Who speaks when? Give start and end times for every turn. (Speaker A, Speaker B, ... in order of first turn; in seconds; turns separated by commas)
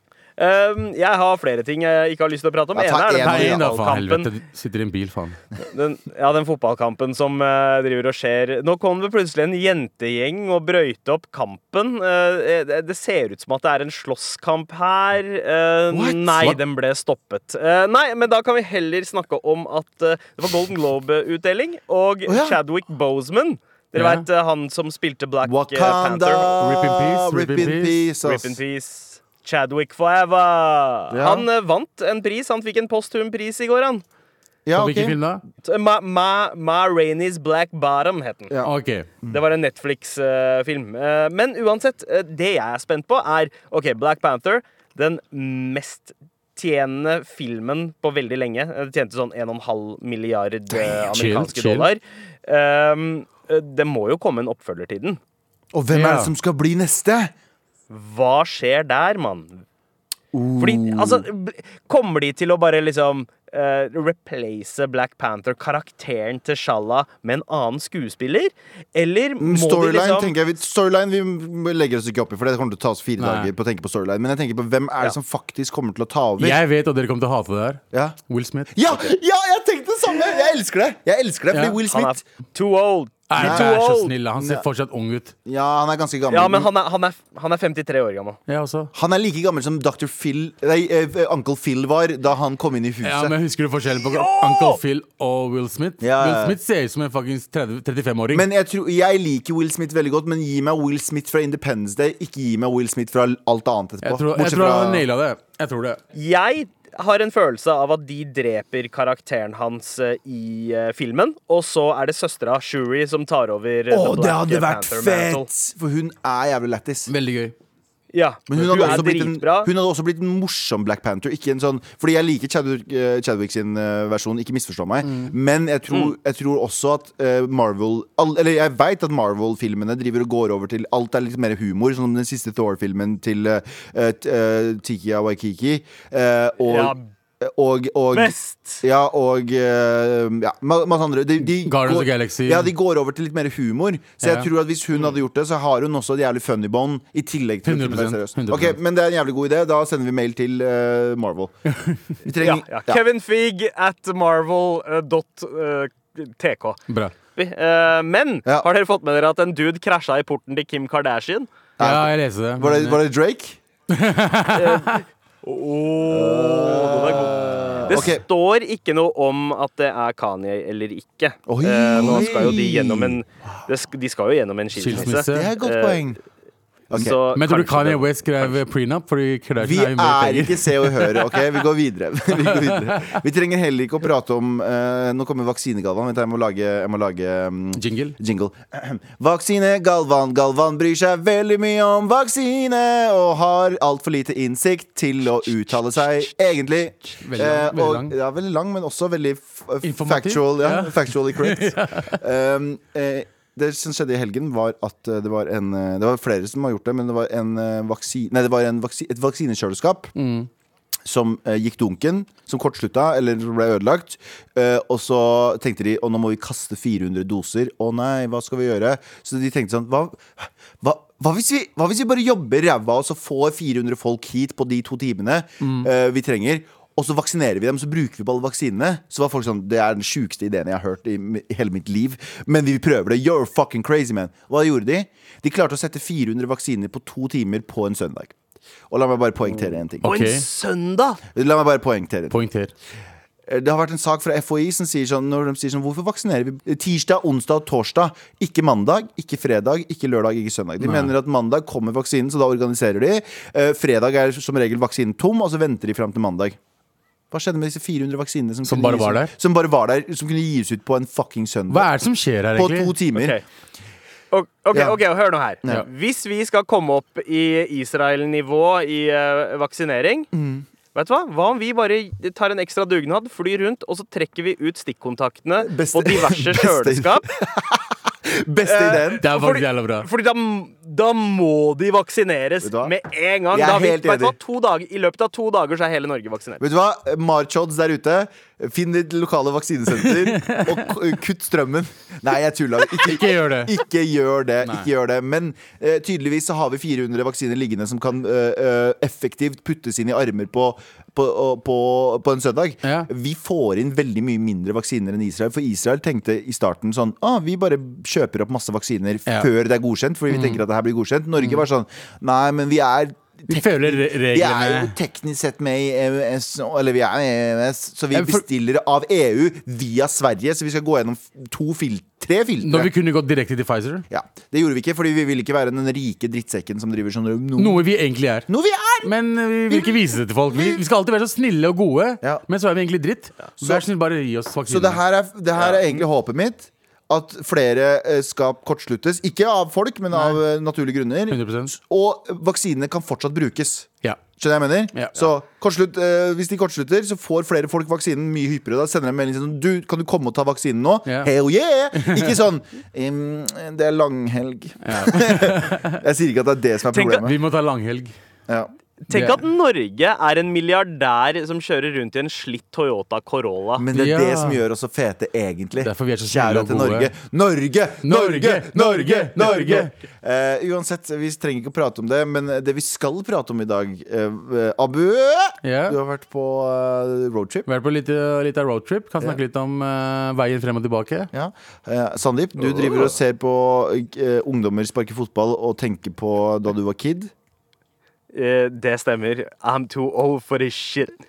Speaker A: 0.4-4.3, Speaker B: 2.7-3.6, Speaker C: 3.2-5.4, Speaker A: 5.6-26.6, Speaker B: 15.9-16.6, Speaker B: 22.3-22.6, Speaker C: 23.9-24.2, Speaker B: 25.4-28.6, Speaker C: 26.6-28.0, Speaker A: 28.2-34.0, Speaker B: 31.1-31.5, Speaker B: 34.6-35.2, Speaker C: 34.7-35.4, Speaker A: 35.6-38.5, Speaker B: 38.5-39.4, Speaker C: 38.6-39.1, Speaker A: 39.3-55.2, Speaker C: 51.0-51.9, Speaker B: 55.7-57.3, Speaker C: 55.9-56.3, Speaker A: 57.9-59.6, Speaker B: 60.3-61.2, Speaker A: 60.6-70.3, Speaker B: 69.4-76.6, Speaker C: 73.2-73.5, Speaker C: 76.4-79.0, Speaker B: 77.9-78.2, Speaker B: 78.7-82.2, Speaker C: 81.5-81.8, Speaker A: 81.9-84.1, Speaker C: 83.3-85.3, Speaker B: 83.4-83.7, Speaker B: 84.4-84.6, Speaker B: 85.5-86.7, Speaker A: 86.3-88.4, Speaker C: 88.5-88.9, Speaker B: 88.9-93.3, Speaker C: 93.0-98.5, Speaker A: 94.0-94.8, Speaker B: 96.0-96.6, Speaker B: 98.3-105.0, Speaker C: 104.0-106.0, Speaker A: 106.1-115.5, Speaker B: 113.9-117.1, Speaker C: 117.1-117.5, Speaker A: 118.1-119.7, Speaker B: 118.5-151.5, Speaker C: 125.0-125.3, Speaker A: 136.6-137.0, Speaker A: 138.1-138.8, Speaker C: 141.5-142.7, Speaker C: 144.2-144.5, Speaker C: 147.6-148.8, Speaker C: 151.7-152.0, Speaker B: 152.2-153.0, Speaker A: 152.4-156.8, Speaker A: 157.3-161.5, Speaker B: 161.8-163.6, Speaker C: 161.8-163.0, Speaker C: 163.9-165.0, Speaker A: 164.5-176.0, Speaker B: 166.1-168.2, Speaker B: 171.5-173.2, Speaker C: 172.0-172.4, Speaker C: 174.8-175.5, Speaker B: 174.9-176.2, Speaker B: 176.9-177.1, Speaker A: 176.9-178.5, Speaker C: 177.0-181.4, Speaker B: 179.6-210.1, Speaker C: 182.4-183.2, Speaker C: 187.8-188.2, Speaker C: 195.4-196.3, Speaker C: 197.1-198.1, Speaker C: 199.8-202.2, Speaker C: 210.2-210.5, Speaker B: 211.1-238.3, Speaker C: 225.6-225.9, Speaker B: 238.9-240.1, Speaker C: 240.0-240.4, Speaker A: 240.0-241.2, Speaker B: 241.3-242.4, Speaker C: 242.3-242.7, Speaker B: 243.5-256.6, Speaker C: 250.8-251.1, Speaker B: 257.3-261.9, Speaker C: 258.6-259.3, Speaker C: 261.7-262.9, Speaker B: 262.5-263.3, Speaker A: 263.1-263.4, Speaker A: 264.3-270.3, Speaker B: 270.3-270.6, Speaker A: 270.9-277.3, Speaker B: 275.6-279.2, Speaker A: 278.6-286.6, Speaker C: 279.2-280.1, Speaker B: 282.6-282.9, Speaker B: 283.5-284.4, Speaker B: 286.6-322.9, Speaker C: 290.0-290.9, Speaker C: 292.9-293.8, Speaker C: 294.6-294.9, Speaker C: 302.8-303.1, Speaker C: 310.3-310.6, Speaker C: 313.5-314.9, Speaker C: 318.1-318.4, Speaker C: 322.6-324.1, Speaker B: 324.1-327.8, Speaker C: 327.6-328.5, Speaker B: 328.5-329.1, Speaker C: 329.0-335.0, Speaker B: 329.7-330.8, Speaker B: 334.7-357.4, Speaker A: 335.6-335.9, Speaker C: 340.1-340.4, Speaker C: 341.3-341.7, Speaker C: 344.9-345.3, Speaker C: 351.1-351.3, Speaker C: 351.9-352.4, Speaker C: 354.8-356.0, Speaker A: 356.9-357.2, Speaker C: 357.2-358.1, Speaker A: 359.1-363.8, Speaker C: 359.1-359.4, Speaker B: 363.8-377.7, Speaker C: 363.9-364.6, Speaker C: 365.8-367.1, Speaker C: 368.0-369.9, Speaker C: 375.6-376.0, Speaker C: 377.7-381.3, Speaker B: 381.3-387.3, Speaker A: 388.3-391.2